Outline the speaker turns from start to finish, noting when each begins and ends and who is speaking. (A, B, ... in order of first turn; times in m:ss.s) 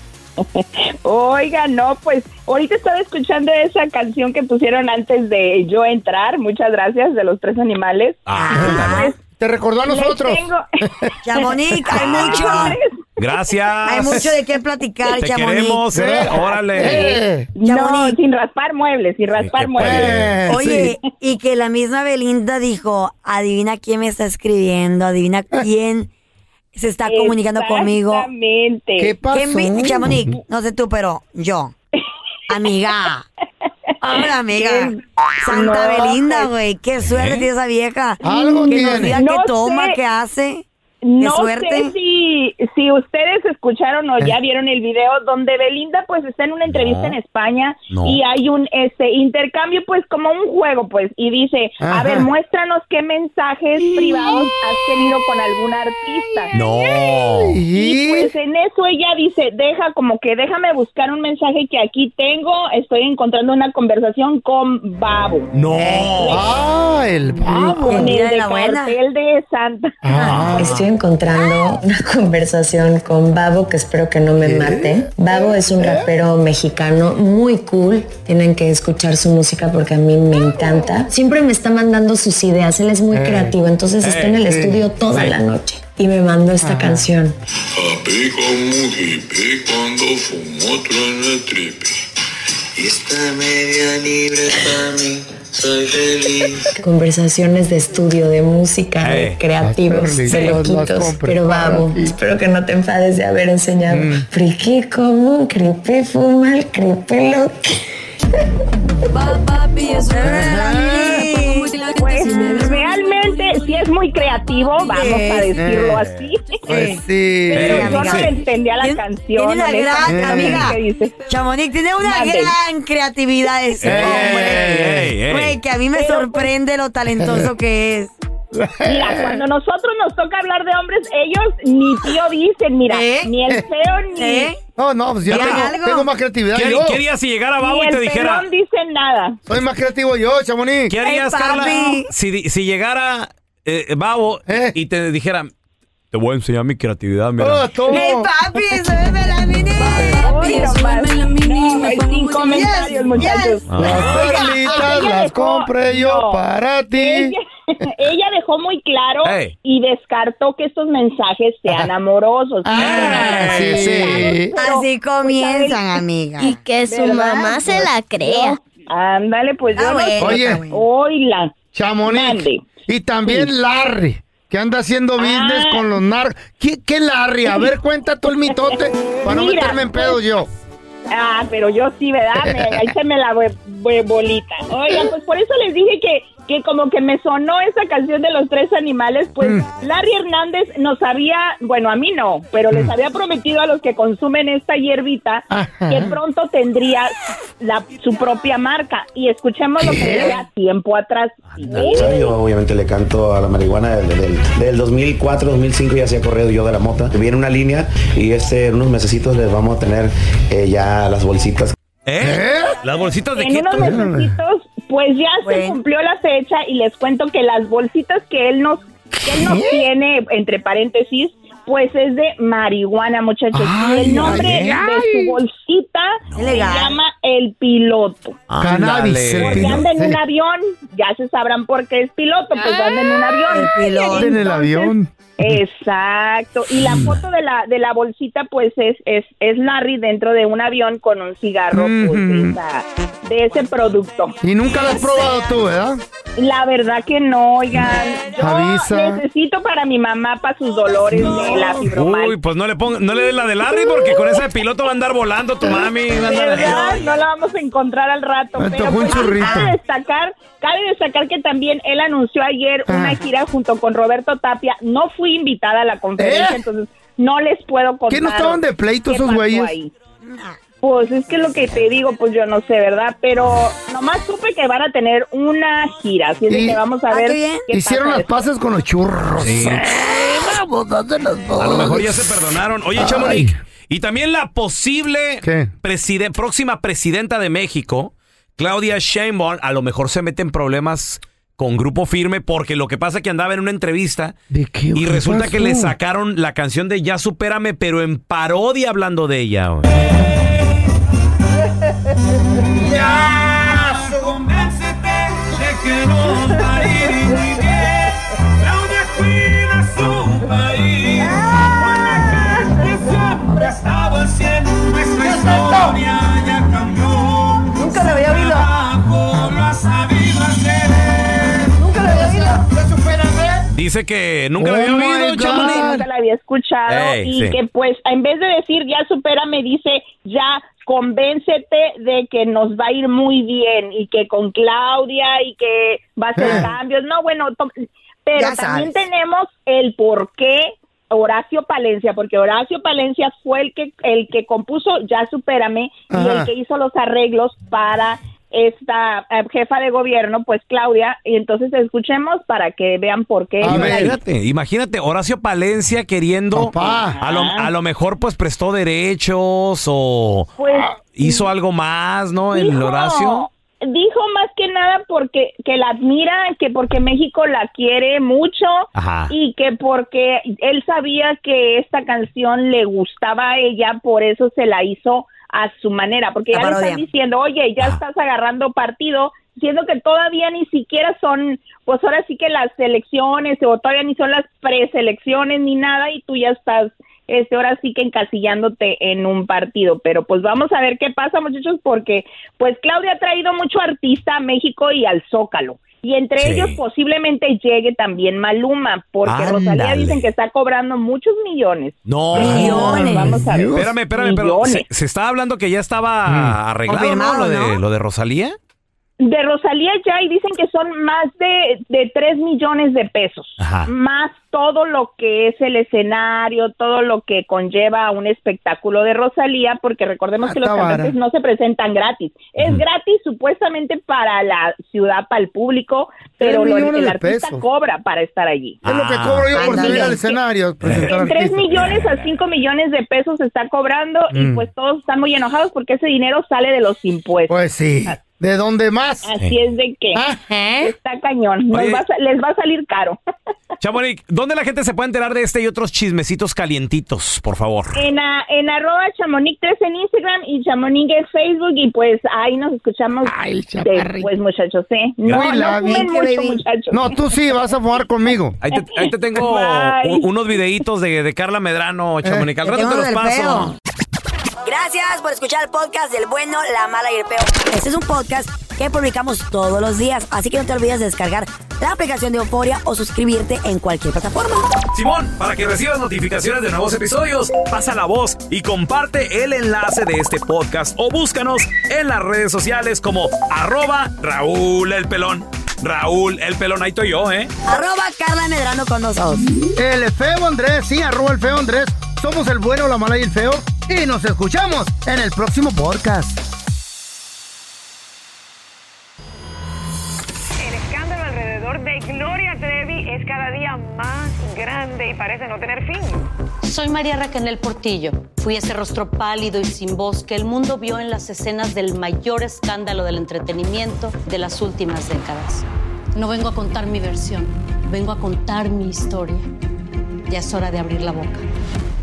0:00.4-0:09.1 A
0:08.3-0:09.0 B
0:08.4-0:09.1 C
0:08.6-0:10.4 D
0:09.9-0:13.0 A
0:11.2-0:12.8 C
0:11.9-0:14.3 B
0:13.8-0:15.9 C
0:15.1-0:17.1 B
0:15.9-0:17.5 D
0:16.2-0:20.9 A
0:17.6-0:18.2 C
0:19.4-0:20.4 B
0:19.8-0:20.9 D
0:20.5-0:26.1 C
0:26.7-0:28.3 C
0:27.0-0:29.1 A
0:29.0-0:30.4 D
0:29.3-0:31.7 C
0:32.5-0:33.2 C
0:34.0-0:40.6 C
0:34.2-0:36.5 A
0:37.0-0:37.5 B
0:38.2-0:39.2 D
0:38.2-0:40.0 A
0:41.0-0:57.1 A
0:41.2-0:41.9 C
0:46.7-0:47.2 B
0:47.9-0:48.2 B
0:51.8-0:52.3 D
0:53.9-0:54.5 D
0:56.5-0:57.6 B
0:57.2-0:58.3 D
0:57.7-1:06.5 A
1:05.5-1:06.4 B
1:06.3-1:08.1 D
1:07.4-1:10.4 A
1:07.8-1:09.0 C
1:10.0-1:10.8 D
1:10.2-1:10.7 B
1:10.6-1:27.3 E
1:14.4-1:16.1 D
1:23.1-1:23.6 D
1:24.0-1:24.4 B
1:24.4-1:25.4 D
1:26.6-1:27.1 D
1:27.8-1:31.7 F
1:32.8-1:36.6 F
1:36.8-1:47.8 E
1:39.0-1:39.4 B
1:39.6-1:42.1 D
1:43.9-1:44.3 D
1:49.1-1:53.7 G
1:50.1-1:51.8 C
1:50.2-1:51.3 D
1:51.8-1:56.6 A
1:54.8-1:55.2 G
1:54.8-1:55.5 C
1:55.6-1:56.0 D
1:56.7-1:58.2 D
1:56.7-2:08.1 C
1:57.5-2:01.2 A
1:57.5-1:58.3 B
2:00.1-2:00.7 D
2:02.0-2:02.5 A
2:03.8-2:05.6 B
2:03.8-2:05.1 D
2:05.9-2:06.5 A
2:07.2-2:07.5 D
2:08.5-2:09.4 D
2:08.8-2:14.5 A
2:12.9-2:13.4 C
2:14.1-2:14.6 C
2:14.8-2:17.0 D
2:15.3-2:16.1 C
2:15.3-2:15.7 B
2:16.5-2:18.4 B
2:17.6-2:19.4 A
2:19.5-2:20.9 D
2:20.9-2:25.5 B
2:21.0-2:22.1 C
2:24.5-2:24.8 D
2:26.1-2:27.8 B
2:27.4-2:28.3 D
2:27.9-2:30.6 C
2:29.7-2:33.4 G
2:30.0-2:36.4 A
2:32.4-2:33.6 C
2:33.7-2:34.0 B
2:33.8-2:37.4 D
2:34.1-2:35.0 C
2:37.0-2:45.8 A
2:39.2-2:39.5 B
2:42.6-2:44.5 D
2:42.7-2:44.4 B
2:44.6-2:46.6 C
2:46.4-2:48.6 G
2:46.8-2:52.7 A
2:49.7-2:50.8 C
2:50.2-2:50.6 D
2:51.7-3:00.5 D
2:55.2-2:55.9 A
2:58.5-3:00.2 A
3:01.1-3:22.3 A
3:02.4-3:02.9 D
3:15.5-3:16.2 D
3:19.8-3:20.4 D
3:21.5-3:21.9 B
3:21.7-3:31.7 H
3:32.1-3:34.0 B
3:32.2-3:32.7 D
3:33.4-3:48.4 A
3:33.8-3:34.3 D
3:35.4-3:35.8 C
3:39.2-3:39.8 D
3:43.5-3:45.4 D
3:44.2-3:44.7 B
3:46.3-3:46.6 B
3:46.3-3:47.0 C
3:48.5-3:49.8 B
3:48.6-3:50.2 D
3:49.4-4:04.4 A
3:53.5-3:54.4 C
3:54.1-3:55.1 D
3:56.8-3:57.2 B
4:01.7-4:02.6 D
4:04.4-4:06.0 D
4:04.9-4:05.2 A
4:06.4-4:12.3 A
4:08.4-4:09.2 D
4:11.1-4:11.9 D
4:11.9-4:17.0 B
4:13.7-4:14.4 A
4:16.2-4:29.9 A
4:18.6-4:19.8 D
4:22.9-4:23.2 D
4:26.2-4:26.6 D
4:28.1-4:29.7 D
4:30.2-4:30.6 C
4:30.8-4:38.4 A
4:36.5-4:36.8 D
4:37.1-4:37.6 C
4:37.7-4:42.4 D
4:39.4-4:39.9 B
4:41.6-4:54.4 B
4:43.0-4:43.6 D
4:45.4-4:45.7 D
4:54.5-4:55.9 D
4:54.9-5:00.6 B
5:02.7-5:21.8 B
5:11.3-5:11.7 C
5:15.2-5:16.0 D
5:22.0-5:22.4 C
5:22.2-5:23.6 D
5:23.7-5:25.8 B
5:24.6-5:26.0 D
5:25.3-5:54.1 A
5:26.9-5:27.6 B
5:36.4-5:36.7 D
5:38.4-5:39.0 C
5:46.1-5:46.5 D
5:53.6-5:54.2 D
5:53.6-6:03.4 B
5:56.5-5:57.2 D
5:56.8-5:57.7 A
6:00.6-6:01.3 A
6:02.5-6:44.8 A
6:08.9-6:09.3 B
6:16.5-6:17.0 C
6:36.4-6:36.8 B
6:39.2-6:40.2 B
6:42.0-6:43.1 B
6:42.4-6:43.4 C
6:42.4-6:43.8 D
6:43.7-6:48.6 B
6:46.3-6:46.6 D
6:46.9-6:47.8 C
6:49.2-7:08.8 A
6:53.6-6:53.9 B
7:00.4-7:01.1 D
7:06.4-7:07.6 D
7:08.8-7:10.0 B
7:08.8-7:11.9 D
7:09.5-7:10.2 C
7:09.6-7:10.4 A
7:10.8-7:11.1 B
7:10.9-7:18.1 A
7:11.7-7:12.5 B
7:14.3-7:14.6 D
7:17.5-7:19.3 D
7:19.2-7:20.2 A
7:20.1-7:20.5 D
7:20.8-7:23.2 A
7:21.7-7:22.0 B
7:23.8-7:28.0 B
7:27.9-7:37.2 A
7:33.2-7:34.3 D
7:35.3-7:36.1 D
7:36.0-7:36.6 C
7:36.9-7:38.6 D
7:38.6-7:43.7 B
7:38.7-7:40.6 A
7:42.6-7:43.7 C
7:44.6-7:54.7 C
7:54.9-8:07.5 B
8:07.6-8:09.5 C
8:09.8-8:16.4 D
8:20.6-8:26.3 I
8:26.6-8:39.5 J
8:40.3-8:41.4 J